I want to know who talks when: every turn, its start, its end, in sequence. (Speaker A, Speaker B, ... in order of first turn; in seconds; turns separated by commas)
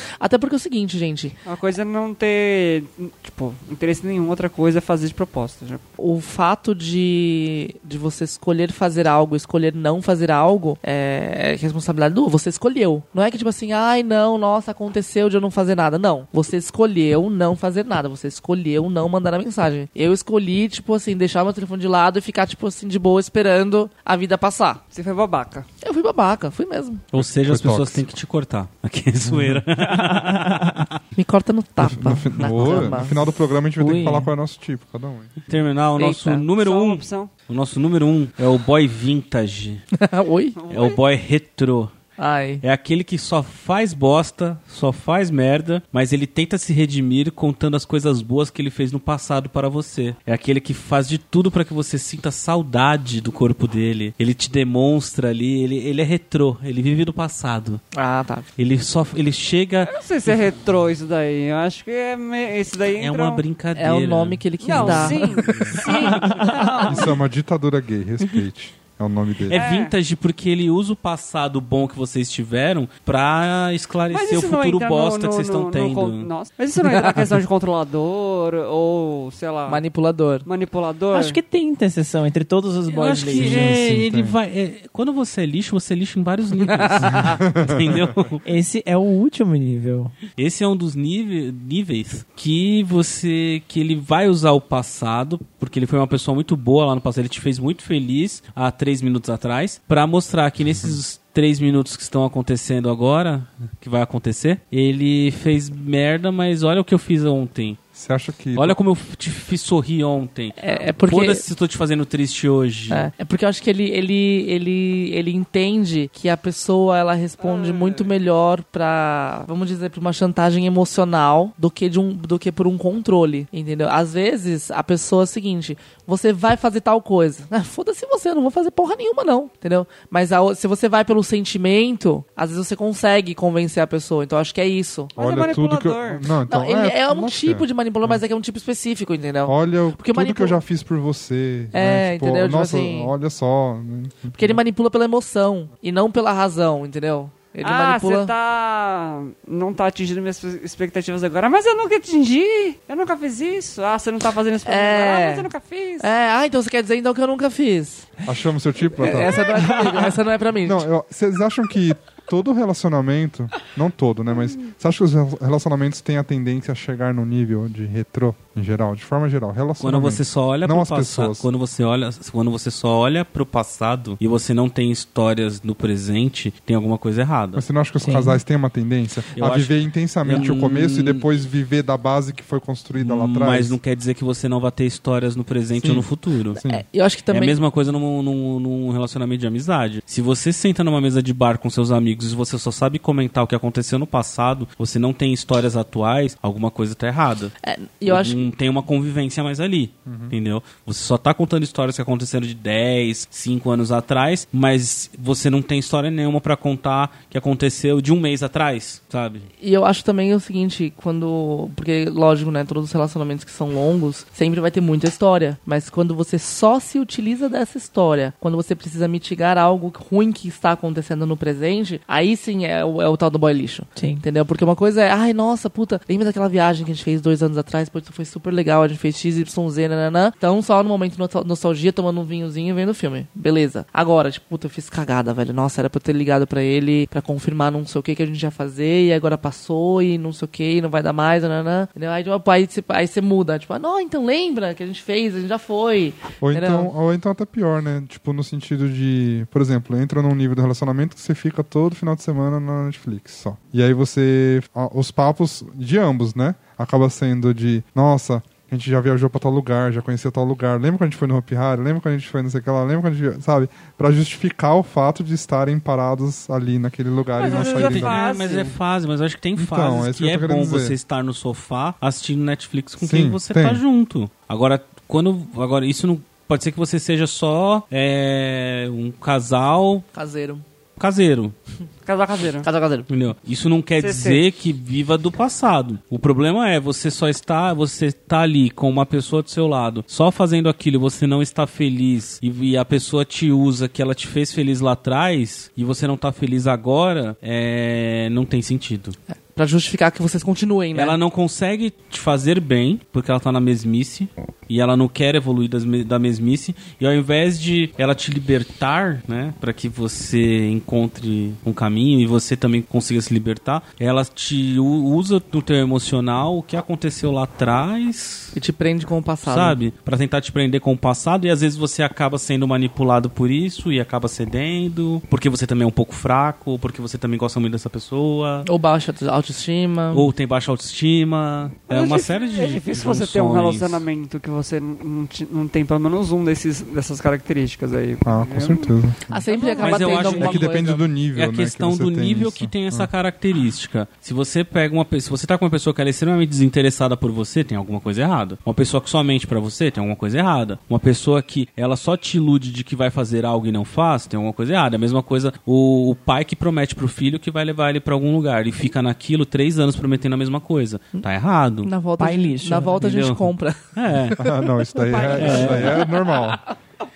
Speaker A: 0.2-1.4, Speaker B: 1.4-5.8, Speaker A: 6.0-24.8, Speaker B: 24.9-25.7, Speaker A: 25.8-27.0, Speaker C: 27.1-30.9, Speaker D: 27.1-28.1, Speaker E: 29.9-30.8, Speaker A: 31.2-33.1, Speaker D: 31.8-35.5, Speaker E: 33.8-34.3, Speaker C: 35.5-39.9, Speaker A: 36.0-36.5, Speaker B: 36.5-37.3, Speaker A: 40.0-40.6, Speaker B: 40.6-41.0, Speaker C: 40.7-41.9, Speaker A: 42.2-42.6, Speaker C: 42.6-57.8, Speaker A: 58.0-58.5, Speaker C: 58.6-59.9, Speaker B: 59.9-63.4, Speaker C: 63.0-66.1, Speaker A: 63.8-65.9, Speaker B: 64.6-67.1, Speaker E: 66.0-66.9, Speaker D: 66.8-69.6, Speaker C: 69.5-76.3, Speaker B: 69.5-69.9, Speaker B: 74.1-79.8, Speaker A: 76.8-77.2, Speaker A: 79.7-80.5, Speaker B: 80.5-81.4, Speaker E: 81.1-84.0, Speaker C: 82.9-88.4, Speaker D: 83.4-84.4, Speaker A: 86.7-87.3, Speaker D: 87.1-88.2, Speaker E: 88.5-90.1, Speaker C: 90.4-107.8, Speaker D: 108.0-108.8, Speaker C: 108.5-113.1, Speaker A: 110.6-111.4, Speaker A: 112.9-135.2, Speaker B: 117.4-118.1, Speaker B: 135.2-136.3, Speaker D: 135.2-138.2, Speaker A: 136.5-140.6, Speaker D: 139.5-144.6, Speaker A: 141.7-143.1, Speaker A: 144.3-148.3, Speaker B: 147.6-156.1, Speaker A: 154.7-158.1, Speaker D: 158.2-159.9, Speaker A: 158.9-160.9, Speaker D: 160.6-171.5, Speaker C: 169.8-177.6, Speaker D: 177.6-183.8, Speaker E: 178.0-178.4, Speaker C: 179.3-181.2, Speaker C: 183.0-186.6, Speaker D: 185.8-186.8, Speaker A: 186.6-187.6, Speaker C: 187.3-197.5, Speaker A: 197.6-198.4, Speaker C: 198.1-209.5, Speaker D: 200.1-200.3, Speaker A: 209.6-246.9, Speaker E: 224.0-224.2, Speaker D: 246.4-268.2, Speaker B: 267.4-268.8, Speaker C: 267.4-280.1, Speaker D: 269.6-271.0, Speaker D: 273.0-273.8, Speaker A: 280.1-280.6, Speaker C: 281.0-281.5, Speaker B: 282.1-282.7, Speaker A: 282.6-283.1, Speaker C: 283.1-299.2, Speaker B: 284.0-284.4, Speaker A: 299.5-301.2, Speaker C: 300.9-318.6, Speaker A: 318.6-319.8, Speaker C: 319.4-328.7, Speaker A: 328.6-330.3, Speaker C: 330.1-334.1, Speaker B: 331.9-338.9, Speaker D: 338.2-339.4, Speaker A: 339.3-341.0, Speaker B: 339.5-340.4, Speaker C: 339.8-340.8, Speaker D: 340.2-343.1, Speaker C: 341.3-361.9, Speaker A: 361.8-364.6, Speaker E: 362.2-363.0, Speaker C: 363.0-364.4, Speaker D: 364.4-366.6, Speaker B: 365.0-366.0, Speaker C: 365.3-366.1, Speaker A: 365.5-365.8